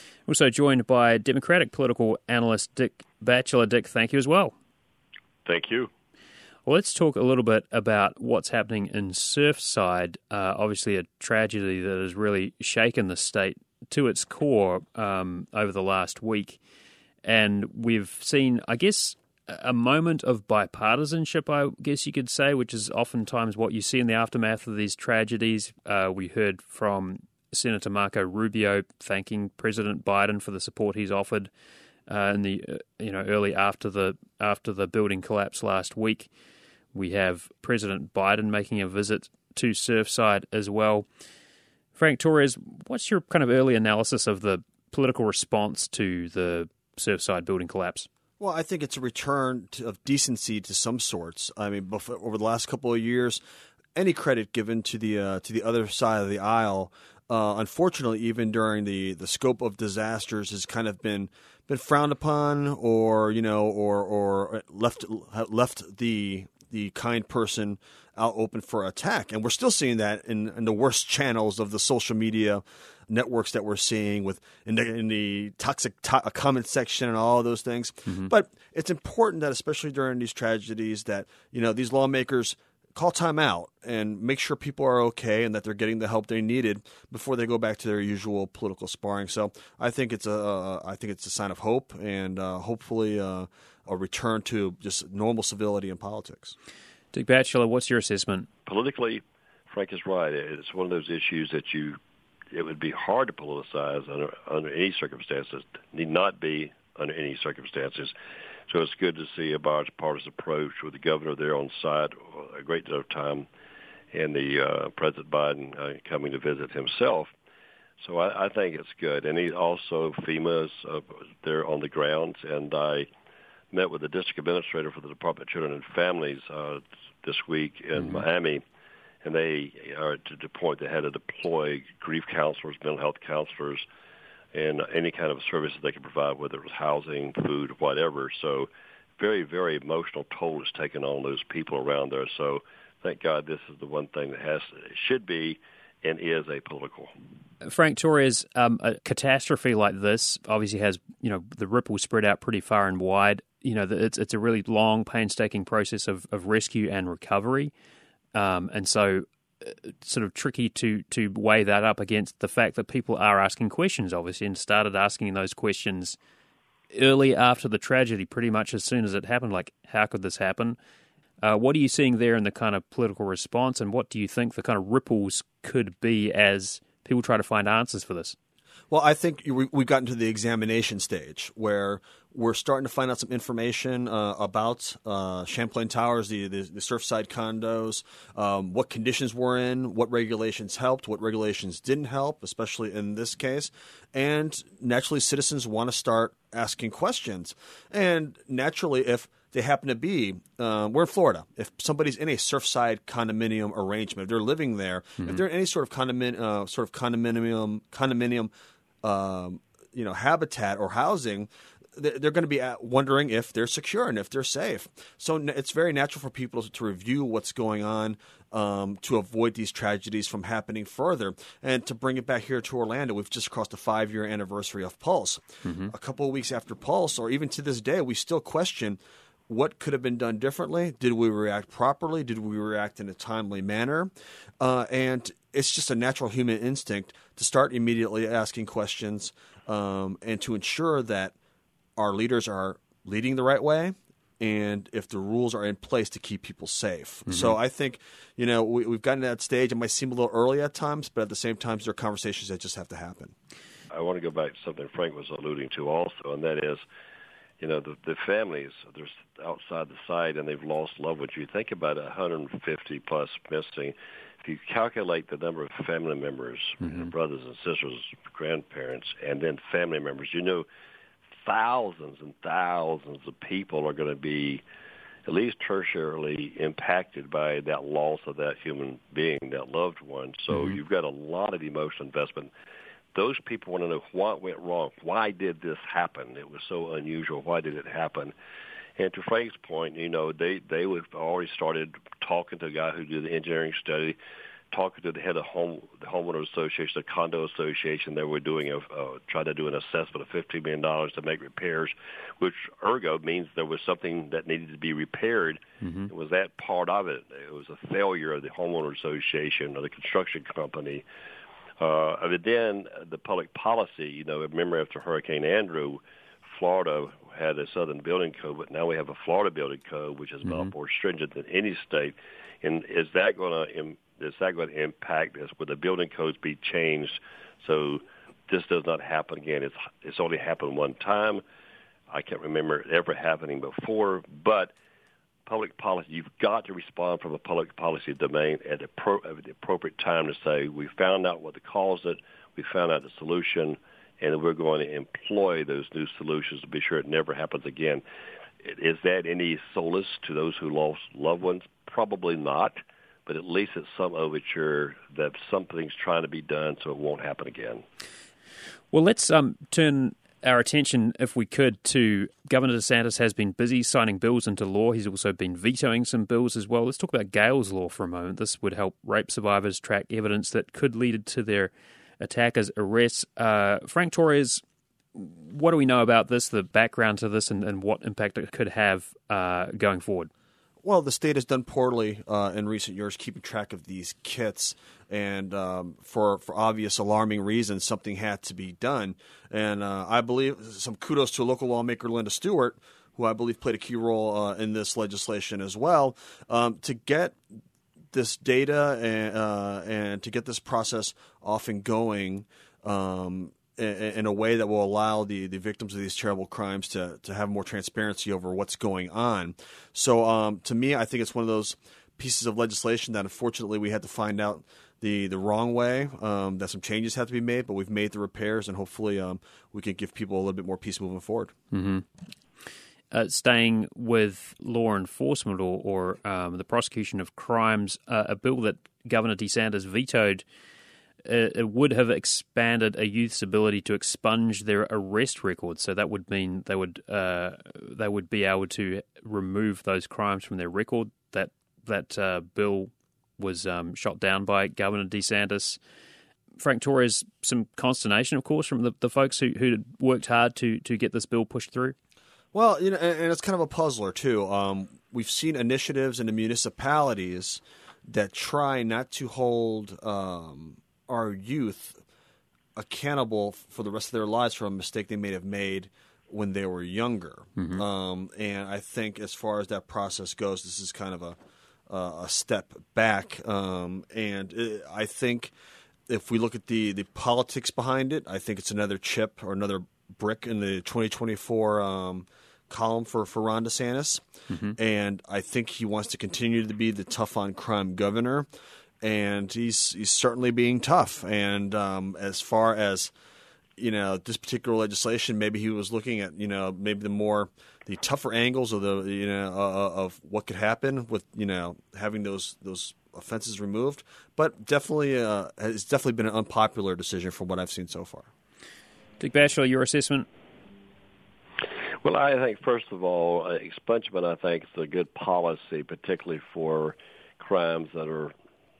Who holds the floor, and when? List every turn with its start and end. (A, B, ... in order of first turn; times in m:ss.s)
0:00.3-0:04.5 A
0:05.4-0:05.9 B
0:06.6-0:16.6 A
0:17.2-0:31.5 A
0:32.1-0:36.3 A
0:36.9-0:41.1 A
0:42.0-0:48.1 A
0:48.4-0:53.4 C
0:53.9-1:36.5 C
1:37.1-1:38.5 A
1:38.6-1:42.0 B
1:42.5-1:48.1 B
1:48.7-1:53.5 B
1:54.1-1:57.3 B
1:58.0-2:03.1 B
2:03.7-2:08.6 B
2:09.2-2:13.8 B
2:14.5-2:18.7 B
2:19.2-2:27.1 B
2:27.6-2:37.7 A
2:38.3-2:46.2 A
2:46.9-2:50.8 A
2:51.4-2:58.4 A
2:58.9-3:28.5 C
3:29.0-4:01.3 C
3:45.6-3:45.9 A
4:02.0-4:13.3 C
4:07.3-4:07.5 A
4:13.9-4:16.8 B
4:17.6-4:30.7 B
4:26.8-4:27.1 A
4:31.4-4:34.6 B
4:35.2-4:42.5 B
4:40.5-4:40.8 A
4:43.1-4:48.3 B
4:49.0-4:54.2 B
4:54.7-5:11.0 B
5:05.8-5:06.1 A
5:11.8-5:31.4 B
5:20.4-5:20.7 A
5:32.1-5:34.7 B
5:35.4-5:48.0 B
5:48.6-5:57.8 B
5:58.9-6:14.6 A
6:15.2-6:20.3 A
6:20.8-6:37.4 C
6:38.1-7:01.5 C
7:01.7-7:02.0 A
7:03.1-7:10.4 A
7:11.2-7:25.8 A
7:26.6-7:31.9 A
7:32.5-7:42.0 C
7:42.8-7:55.5 C
7:47.6-7:47.8 A
7:56.1-8:08.5 C
8:04.5-8:04.8 A
8:09.0-8:13.1 C
8:13.8-8:28.3 C
8:29.2-8:30.3 A
8:32.0-8:38.3 B